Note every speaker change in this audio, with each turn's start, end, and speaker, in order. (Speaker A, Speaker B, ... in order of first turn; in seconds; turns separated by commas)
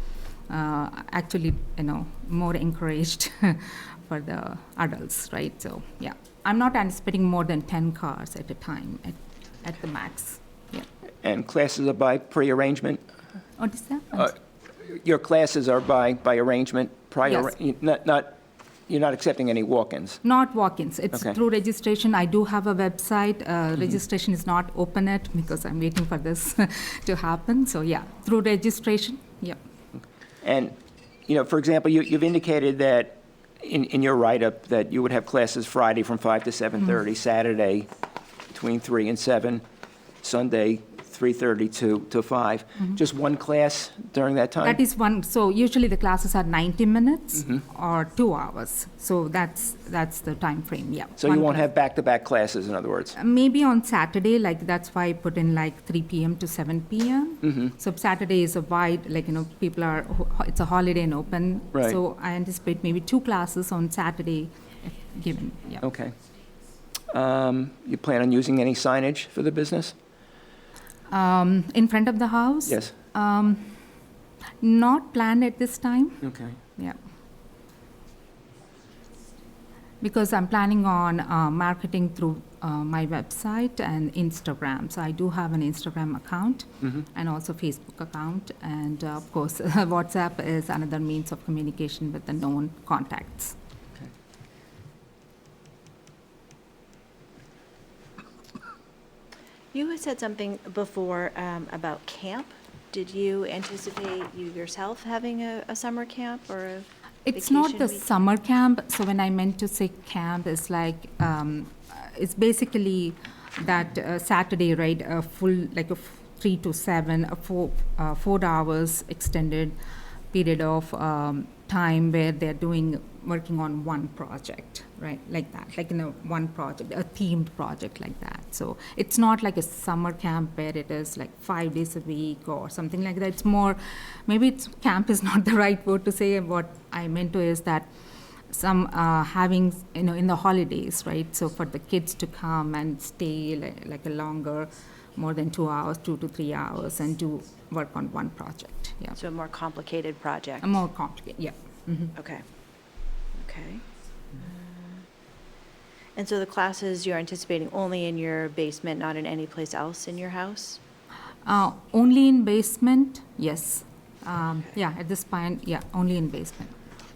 Speaker A: 0.5-10.9, Speaker B: 11.2-13.0, Speaker A: 13.6-14.3, Speaker B: 14.8-18.4, Speaker A: 17.2-17.5, Speaker B: 18.9-20.2, Speaker A: 20.2-29.6, Speaker B: 30.4-30.8, Speaker B: 31.3-37.9, Speaker B: 38.5-39.6, Speaker B: 40.2-44.8, Speaker A: 44.6-51.7, Speaker B: 51.2-53.1, Speaker A: 53.1-65.8, Speaker B: 61.7-62.0, Speaker B: 65.8-66.1, Speaker B: 67.1-69.9, Speaker A: 71.1-73.8, Speaker B: 72.7-72.9, Speaker A: 74.6-77.0, Speaker B: 76.2-76.6, Speaker A: 80.0-93.5, Speaker C: 99.7-108.0, Speaker A: 107.2-119.8, Speaker A: 120.3-137.9, Speaker A: 138.5-149.2, Speaker C: 149.2-150.8, Speaker A: 150.6-152.1, Speaker C: 152.2-152.4, Speaker C: 153.3-153.8, Speaker C: 154.3-155.0, Speaker C: 156.2-160.8, Speaker A: 161.4-166.7